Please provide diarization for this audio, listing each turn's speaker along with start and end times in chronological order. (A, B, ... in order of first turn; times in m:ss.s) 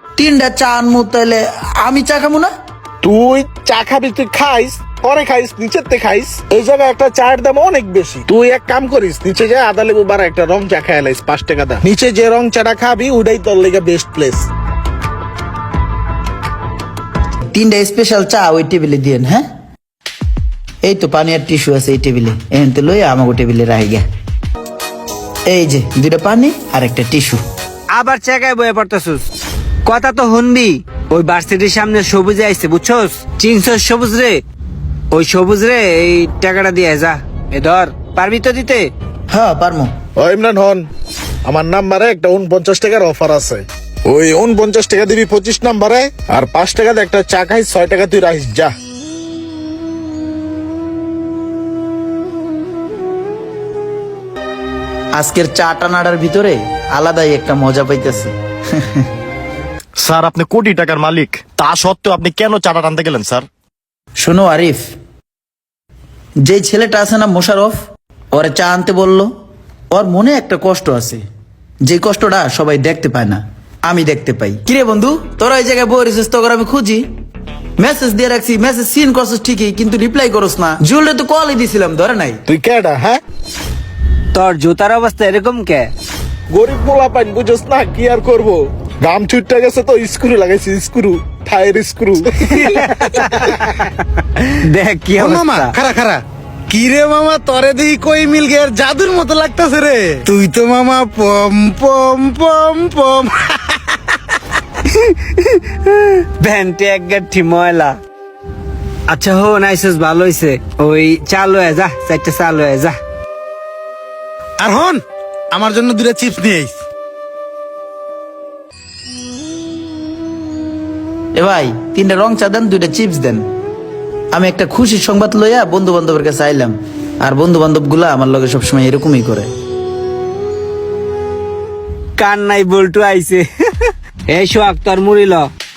0:00.2-0:02.5 A
0:03.0-0:14.5 B
0:17.5-0:19.4 A
0:20.8-0:24.0 A
0:25.5-0:27.4 A
0:27.9-0:29.3 C
0:29.8-0:34.4 C
0:35.1-0:38.9 C
0:39.3-0:39.9 A
0:40.2-0:40.9 B
0:41.4-0:48.7 B
0:55.2-0:59.1 A
1:00.0-1:03.5 D
1:04.2-1:04.9 A
1:06.4-1:07.8 A
1:08.3-1:09.3 A
1:09.9-1:11.2 A
1:11.8-1:17.1 A
1:17.8-1:22.4 A
1:22.5-1:23.2 B
1:24.3-1:25.9 C
1:26.5-1:32.7 B
1:32.5-1:34.0 C
1:34.6-1:35.8 C
1:35.2-1:43.6 E
1:44.8-1:48.0 C
1:49.1-1:53.0 C
1:54.6-1:55.0 E
1:55.5-1:56.7 E
1:56.0-1:56.4 D
2:01.4-2:03.4 A
2:04.3-2:09.5 A
2:12.2-2:15.5 C